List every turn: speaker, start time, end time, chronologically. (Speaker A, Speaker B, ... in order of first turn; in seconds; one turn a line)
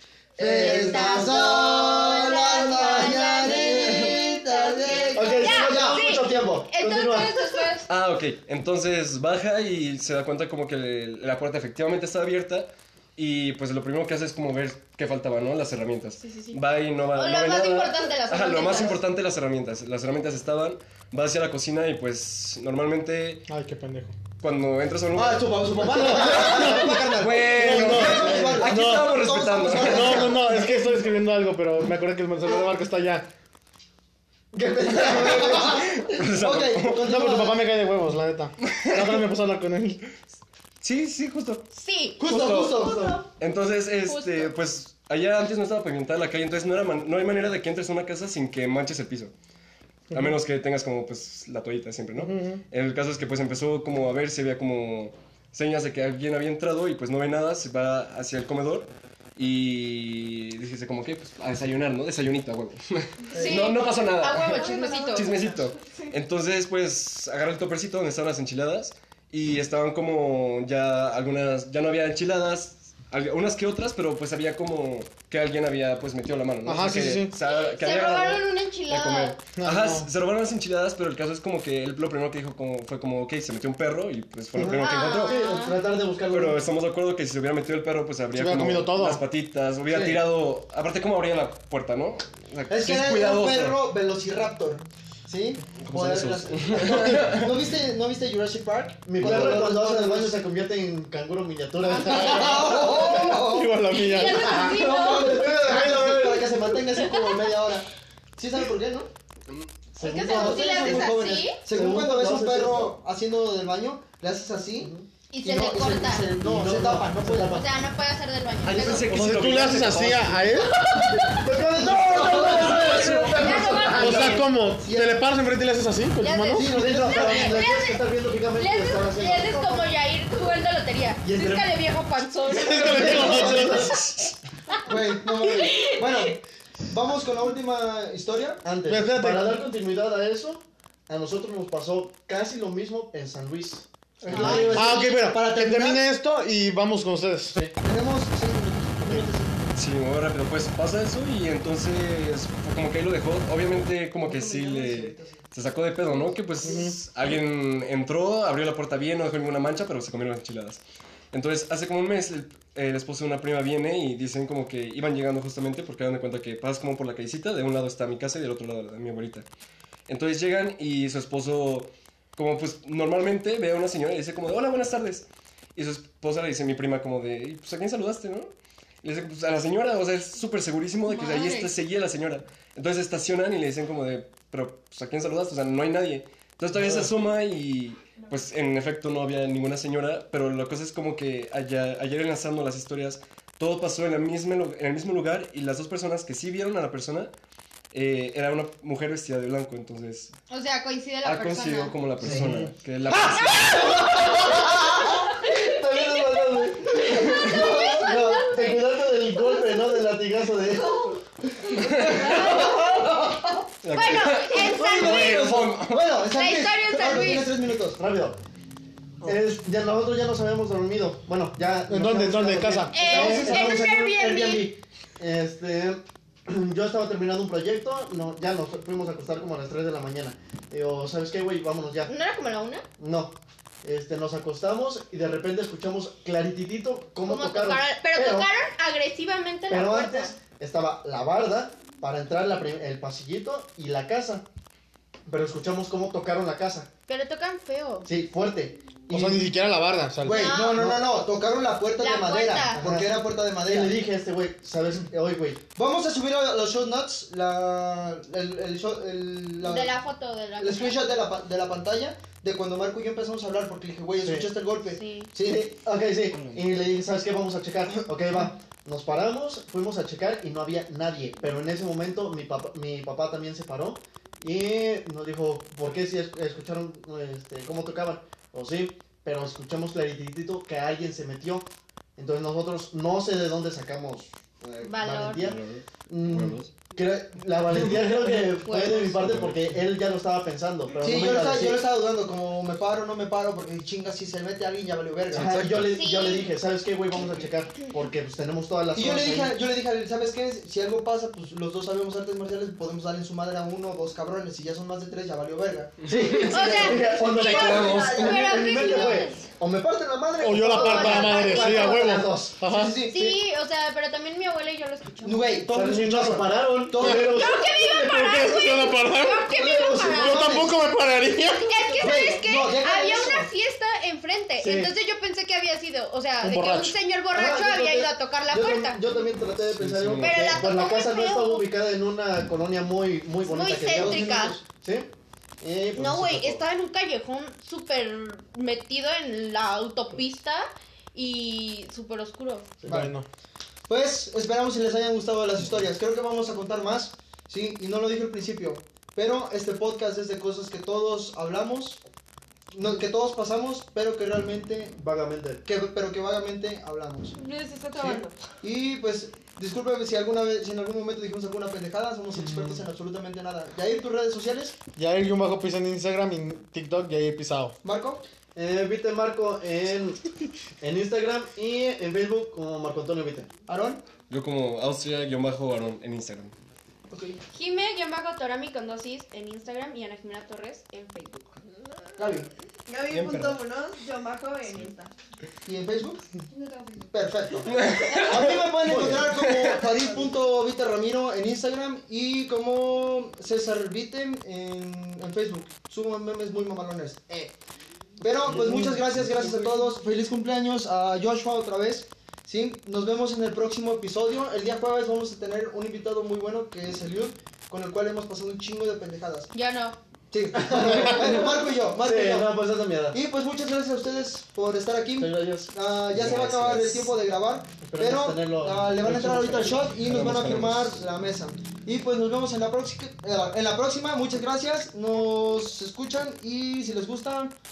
Speaker A: 0.4-6.1
Speaker B: 0.4-7.9
Speaker C: 0.4-2.1
Speaker D: 3.8-4.0
Speaker C: 5.1-7.5
Speaker D: 7.9-23.5
Speaker B: 16.2-16.6
Speaker B: 17.1-19.0
Speaker E: 23.5-24.2
Speaker D: 24.4-30.4
Speaker A: 25.1-30.7
Speaker E: 25.9-29.2
Speaker E: 29.9-33.3
Speaker A: 34.5-37.6
Speaker D: 34.9-37.0
Speaker E: 36.9-40.0
Speaker D: 38.6-39.2
Speaker D: 40.8-41.7
Speaker B: 41.7-42.3
Speaker A: 42.2-43.2
Speaker D: 42.2-49.3
Speaker F: 42.8-43.3
Speaker B: 44.0-44.5
Speaker D: 50.1-85.5
Speaker E: 52.2-52.6
Speaker A: 63.3-63.7
Speaker B: 63.4-65.3
Speaker F: 63.4-66.2
Speaker E: 76.6-77.4
Speaker B: 77.4-79.4
Speaker E: 79.6-80.1
Speaker C: 84.6-86.7
Speaker B: 84.8-85.8
Speaker D: 86.3-93.8
Speaker E: 88.3-89.2
Speaker C: 89.9-90.2
Speaker A: 92.7-100.4
Speaker D: 95.8-97.6
Speaker C: 99.1-103.2
Speaker B: 101.8-102.9
Speaker A: 102.1-103.8
Speaker E: 103.0-106.5
Speaker B: 103.9-105.4
Speaker A: 104.5-109.1
Speaker C: 105.4-106.1
Speaker B: 107.0-107.4
Speaker A: 109.9-117.5
Speaker B: 110.0-111.6
Speaker C: 110.3-111.1
Speaker C: 111.7-113.0
Speaker C: 114.8-115.1
Speaker B: 115.3-116.3
Speaker C: 116.4-117.7
Speaker B: 117.5-119.2
Speaker D: 118.6-120.6
Speaker E: 119.0-121.0
Speaker B: 120.5-124.5
Speaker C: 121.4-124.4
Speaker A: 121.5-123.5
Speaker D: 122.7-123.7
Speaker E: 124.0-126.8
Speaker A: 124.8-125.2
Speaker B: 126.2-128.0
Speaker A: 126.6-127.6
Speaker C: 126.6-129.9
Speaker B: 128.5-133.8
Speaker C: 131.2-131.7
Speaker E: 132.5-134.1
Speaker C: 132.5-134.1
Speaker A: 132.9-133.8
Speaker B: 134.7-136.3
Speaker A: 134.9-138.6
Speaker C: 138.7-144.9
Speaker E: 138.8-139.6
Speaker A: 144.2-146.1
Speaker B: 144.3-145.2
Speaker E: 144.3-147.6
Speaker A: 147.8-149.7
Speaker D: 149.8-169.5
Speaker A: 154.2-155.4
Speaker E: 156.6-157.0
Speaker D: 170.1-197.3
Speaker B: 181.1-181.7
Speaker D: 197.9-200.3
Speaker B: 200.5-202.0
Speaker D: 201.2-204.1
Speaker E: 202.2-202.7
Speaker B: 203.8-209.0
Speaker C: 204.0-211.0
Speaker A: 207.4-207.8
Speaker F: 210.6-211.2
Speaker D: 211.8-212.3
Speaker F: 211.9-213.1
Speaker B: 212.2-212.8
Speaker A: 212.2-213.3
Speaker C: 212.4-212.8
Speaker D: 213.8-216.1
Speaker B: 213.9-215.5
Speaker A: 214.5-218.0
Speaker B: 216.2-217.6
Speaker C: 217.7-218.4
Speaker C: 219.2-232.1
Speaker E: 221.9-222.9
Speaker B: 222.9-224.7
Speaker A: 222.9-223.8
Speaker B: 232.1-232.8
Speaker C: 233.0-238.5
Speaker B: 237.2-240.3
Speaker C: 239.7-244.5
Speaker C: 245.3-246.9
Speaker B: 247.1-248.1
Speaker C: 248.1-249.5
Speaker E: 249.1-250.5
Speaker A: 250.2-254.0
Speaker B: 250.3-250.8
Speaker C: 250.7-251.0
Speaker B: 252.0-252.8
Speaker C: 252.7-255.6
Speaker A: 255.8-260.0
Speaker B: 259.6-261.0
Speaker A: 260.6-265.0
Speaker B: 264.9-265.3
Speaker C: 265.4-291.8
Speaker B: 284.8-285.5
Speaker D: 285.4-286.7
Speaker B: 288.6-289.2
Speaker D: 289.2-289.5
Speaker A: 291.0-295.6
Speaker D: 295.3-295.9
Speaker C: 295.3-299.6
Speaker B: 295.9-296.5
Speaker A: 298.9-307.2
Speaker C: 306.1-309.3
Speaker B: 306.5-309.5
Speaker F: 306.5-309.0
Speaker D: 307.4-308.2
Speaker A: 308.2-313.4
Speaker E: 310.4-313.0
Speaker B: 310.7-312.2
Speaker C: 311.9-312.5
Speaker B: 313.1-315.5
Speaker A: 315.2-317.5
Speaker C: 315.7-317.9
Speaker E: 317.0-321.7
Speaker B: 317.3-320.6
Speaker A: 319.5-320.8
Speaker B: 321.6-329.0
Speaker A: 322.0-323.5
Speaker C: 324.6-324.9
Speaker E: 326.4-327.0
Speaker C: 327.3-335.1
Speaker D: 329.8-330.6
Speaker B: 330.2-331.7
Speaker B: 333.4-334.6
Speaker A: 333.9-334.6
Speaker C: 335.6-336.6
Speaker B: 335.9-342.7
Speaker A: 342.9-343.1
Speaker E: 342.9-343.3
Speaker A: 343.9-352.0
Speaker A: 352.7-355.0
Speaker C: 355.0-355.6
Speaker A: 355.6-357.4
Speaker B: 357.4-358.3
Speaker A: 358.0-364.8
Speaker E: 365.0-367.8
Speaker A: 367.8-368.2
Speaker C: 368.6-370.2
Speaker C: 370.8-373.5
Speaker A: 373.7-374.0
Speaker D: 374.3-376.5
Speaker A: 377.1-377.4
Speaker B: 377.5-381.5
Speaker A: 382.2-382.5
Speaker F: 382.9-385.1
Speaker D: 383.1-383.6
Speaker A: 385.6-386.2
Speaker F: 386.5-387.2
Speaker A: 387.1-397.6
Speaker D: 387.7-388.6
Speaker D: 389.3-389.8
Speaker A: 398.2-409.5
Speaker C: 398.5-399.6
Speaker B: 409.5-410.0
Speaker A: 410.3-412.6
Speaker C: 410.5-413.2
Speaker A: 413.1-427.5
Speaker C: 415.2-416.9
Speaker D: 416.2-416.7
Speaker C: 417.8-419.9
Speaker D: 420.0-421.0